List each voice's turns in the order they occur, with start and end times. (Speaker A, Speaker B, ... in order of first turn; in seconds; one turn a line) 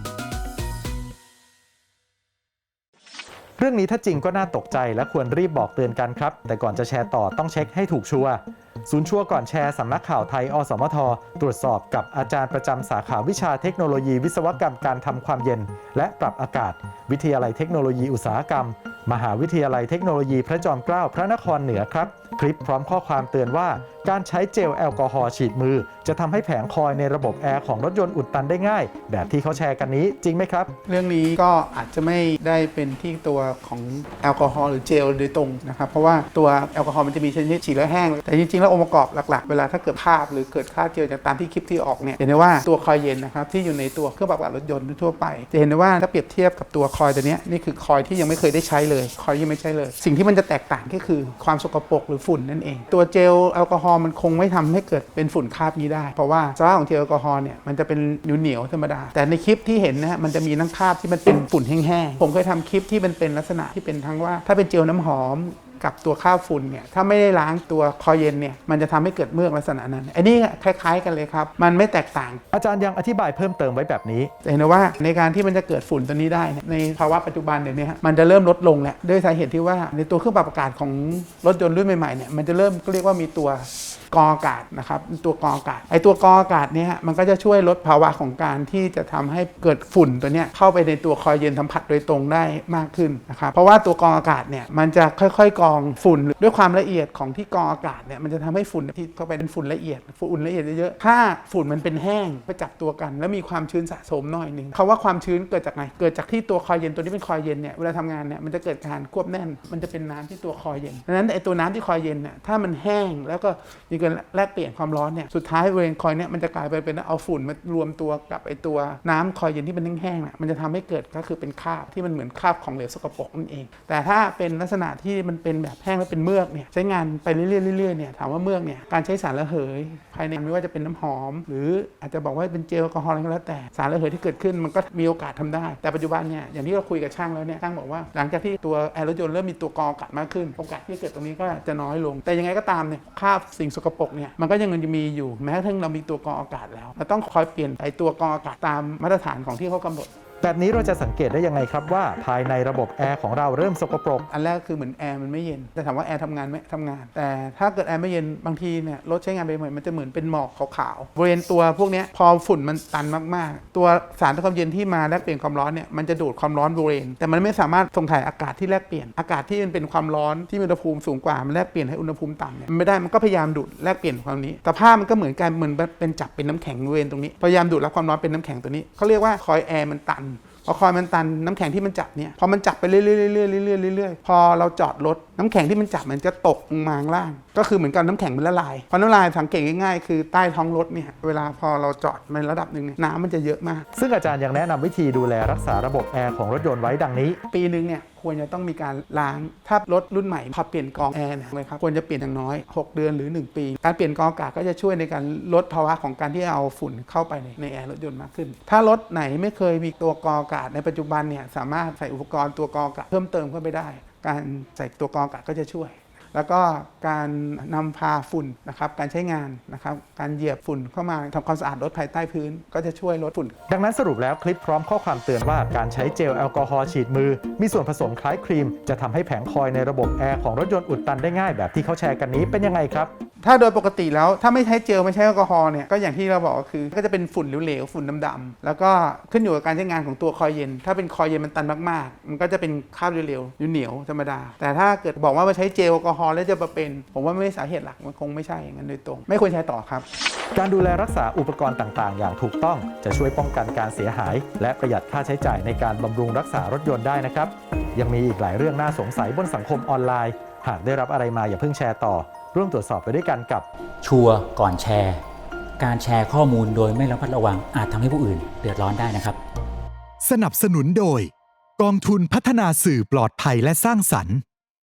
Speaker A: 3.6-30.7
Speaker B: 30.9-72.4
Speaker A: 72.5-74.3
Speaker B: 74.4-150.1
Speaker A: 150.4-154.3
Speaker B: 154.3-193.8
Speaker A: 193.9-197.4
Speaker B: 197.4-223.6
Speaker A: 223.7-233.1
Speaker B: 233.4-250.1
Speaker A: 250.5-263.6
Speaker C: 264.0-265.2
Speaker C: 265.8-269.4
Speaker D: 270.2-274.4